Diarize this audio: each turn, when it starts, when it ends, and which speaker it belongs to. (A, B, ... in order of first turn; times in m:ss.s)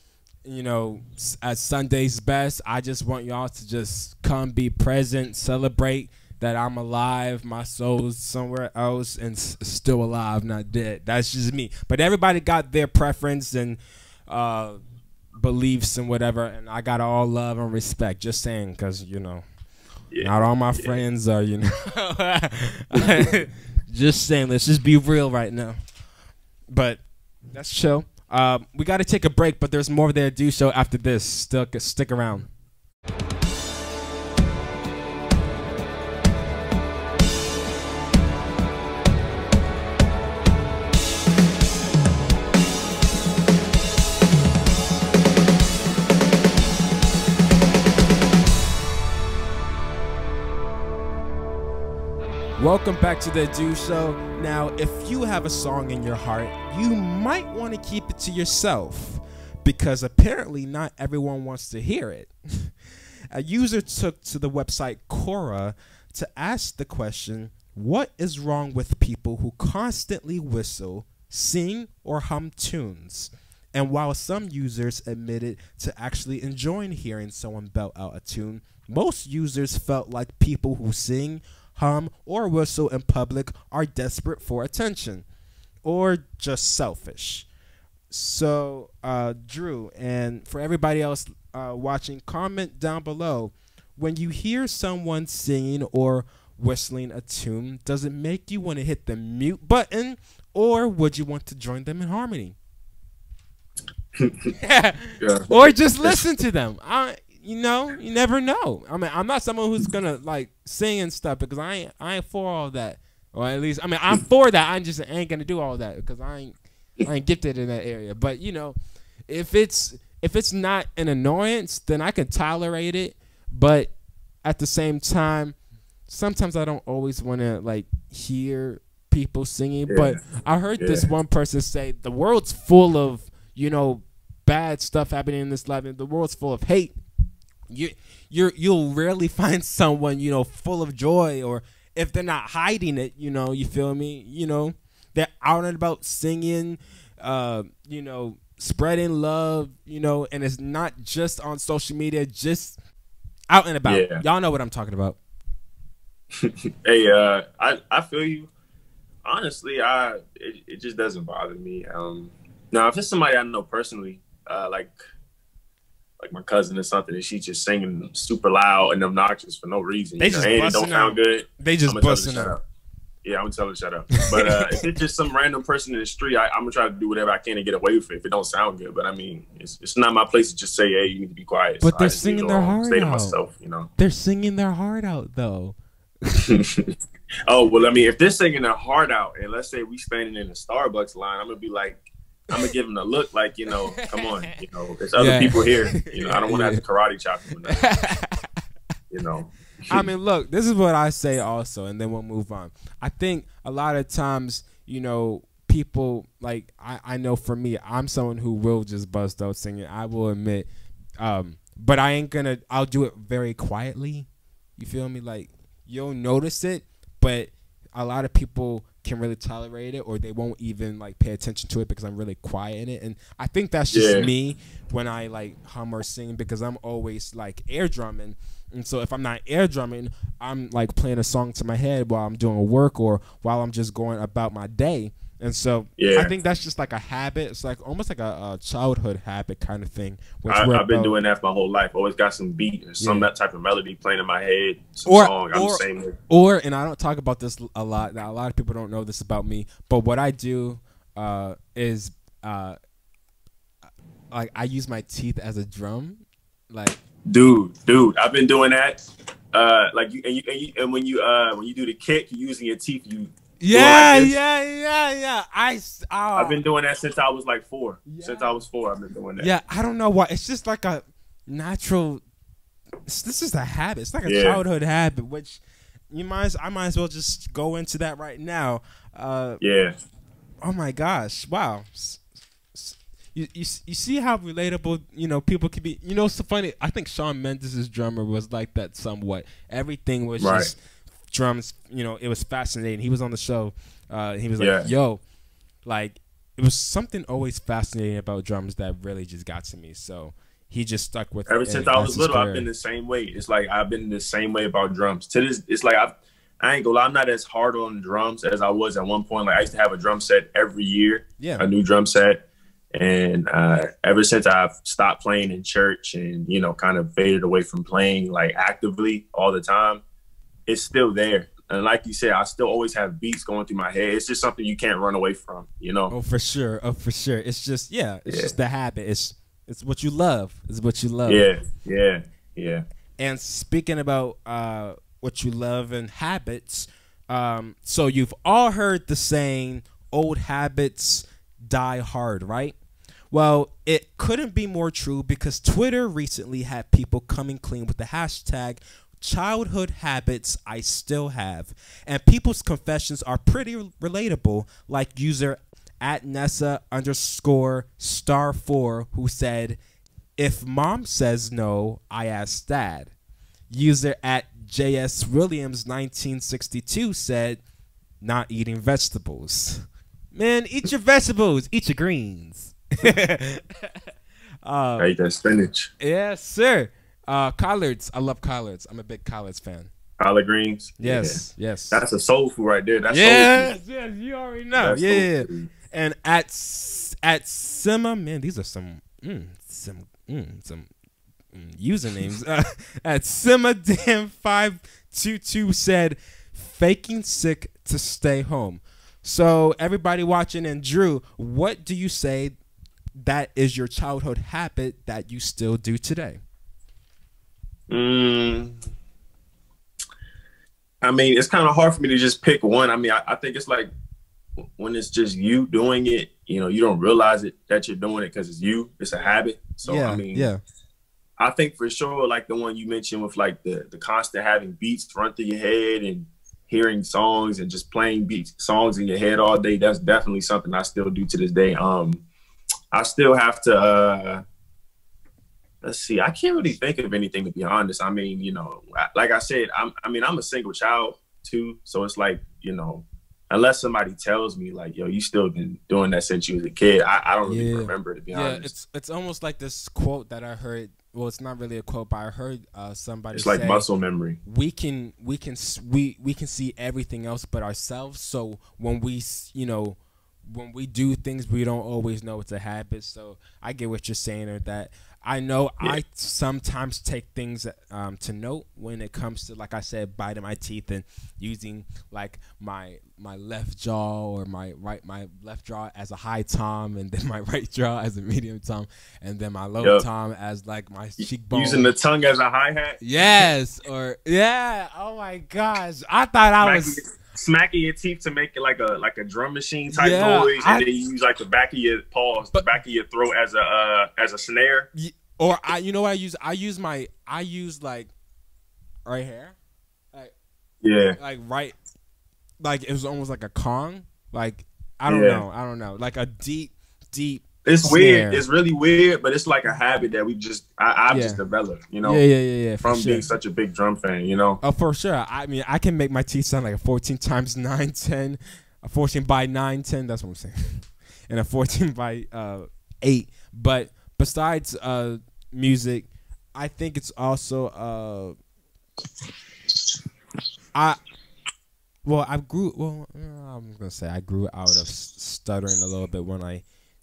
0:00.4-0:14.8 A
0:15.3-0:19.4 A
0:20.1-0:21.0 B
0:20.2-0:25.8 A
0:23.0-0:23.2 B
0:26.7-0:32.5 A
0:52.6-1:02.7 A
1:03.3-1:25.2 A
1:25.8-1:27.5 A
1:28.1-1:42.6 A
1:44.2-1:44.5 B
1:44.6-1:58.8 A
1:45.2-1:45.5 B
1:59.3-2:03.9 A
2:04.4-2:05.5 A
2:06.1-2:17.0 A
2:09.9-2:10.2 B
2:10.8-2:11.1 B
2:17.7-2:32.8 A
2:33.5-2:35.2 A
2:33.8-2:34.2 B
2:36.4-2:38.5 B
2:39.2-2:44.9 B
2:46.2-2:52.6 B
2:50.2-2:52.6 A
2:53.2-3:03.9 B
2:54.2-2:54.8 A
3:01.8-3:03.4 A
3:04.0-3:05.8 A
3:06.4-3:06.9 B
3:07.5-3:18.0 B
3:13.7-3:14.5 A
3:15.2-3:16.8 A
3:17.6-3:18.5 A
3:19.1-3:20.0 B
3:19.9-4:01.2 A
3:43.9-3:44.3 B
3:56.0-3:56.3 B
4:00.5-4:06.2 B
4:03.0-4:03.3 A
4:05.0-4:12.8 A
4:14.3-4:17.0 A
4:17.3-4:24.4 B
4:23.6-4:26.6 A
4:26.4-4:29.5 B
4:28.0-4:28.5 A
4:29.4-4:32.2 A
4:33.1-4:39.6 A
4:34.2-4:34.6 B
4:39.6-4:39.9 B
4:40.6-4:42.2 A
4:42.7-4:50.8 A
4:50.4-4:50.7 B
4:51.3-4:55.2 A
4:54.6-4:54.9 B
4:55.8-5:02.6 A
5:01.5-5:12.4 B
5:11.4-5:11.6 A
5:12.9-5:20.0 B
5:20.7-5:26.1 B
5:26.1-5:31.5 A
5:28.2-5:28.5 B
5:31.3-5:32.8 B
5:33.2-5:42.7 A
5:43.3-5:59.8 A
6:00.4-6:03.1 A
6:03.7-6:07.6 A
6:08.2-6:13.9 A
6:14.6-6:15.1 A
6:15.0-6:15.9 B
6:16.0-6:19.9 A
6:20.2-6:23.7 B
6:21.0-6:22.0 A
6:23.1-6:30.9 A
6:24.8-6:25.7 B
6:31.5-6:42.6 A
6:43.2-6:46.4 A
6:47.9-6:48.8 B
6:51.0-6:53.9 B
6:54.8-7:00.5 B
6:59.8-7:00.6 A
7:01.4-7:12.2 B
7:12.9-7:14.4 B
7:15.8-7:28.7 B
7:27.4-7:33.8 A
7:33.3-7:34.4 B
7:34.4-8:01.9 A
7:59.8-8:00.0 B
8:01.2-8:03.0 B
8:03.0-8:07.0 A
8:06.6-8:14.9 B
8:09.9-8:10.8 A
8:14.9-8:18.1 A
8:19.0-8:19.6 A
8:20.8-8:21.2 B
8:21.2-8:21.7 A
8:22.6-8:28.4 A
8:25.1-8:25.4 B
8:27.6-8:32.2 B
8:31.1-8:31.4 A
8:32.0-8:33.3 A
8:32.8-8:34.6 B
8:34.6-8:48.3 A
8:52.0-8:56.6 A